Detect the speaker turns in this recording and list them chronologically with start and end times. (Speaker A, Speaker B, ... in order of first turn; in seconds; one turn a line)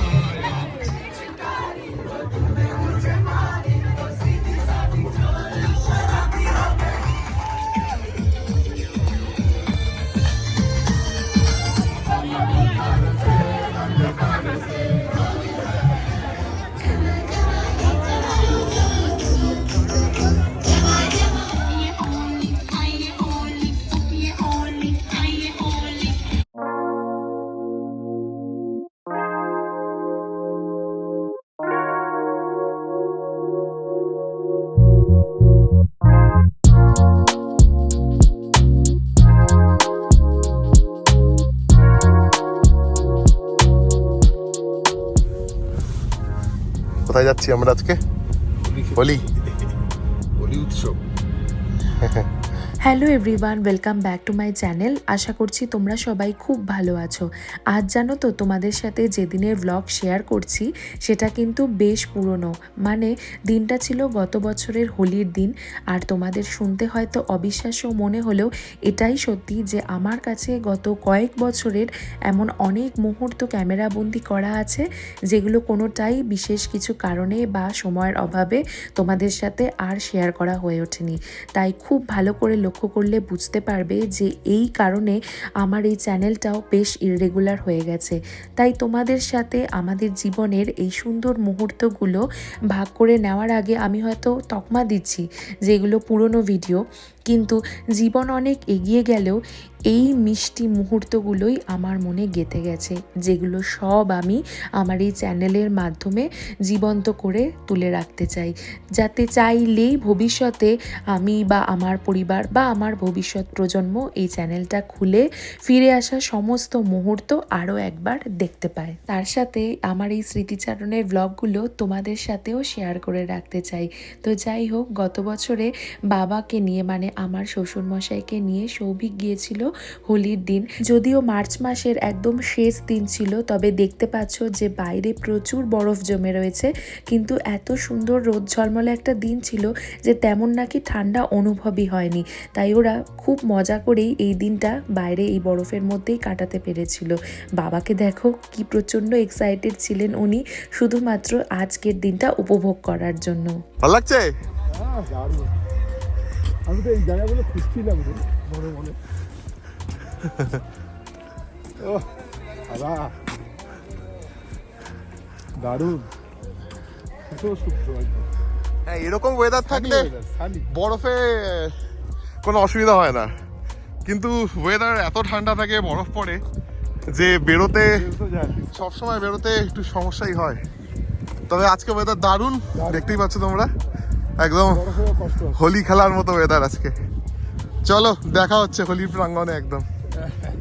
Speaker A: 47.1-48.0
Speaker A: 48.9-49.3
Speaker B: 50.4-51.0
Speaker A: 52.0-52.3
Speaker C: 52.8-153.6
Speaker A: 153.8-154.3
Speaker B: 154.7-155.5
Speaker B: 156.7-159.0
Speaker B: 162.7-163.2
Speaker B: 165.6-166.1
Speaker B: 167.3-168.3
Speaker A: 168.9-170.1
Speaker B: 169.7-170.7
Speaker A: 170.7-171.8
Speaker A: 172.4-173.3
Speaker A: 174.1-176.4
Speaker A: 177.1-178.1
Speaker B: 178.1-178.7
Speaker A: 178.7-180.6
Speaker A: 181.5-183.7
Speaker A: 184.4-184.9
Speaker B: 184.8-185.6
Speaker A: 185.5-186.9
Speaker A: 187.8-189.9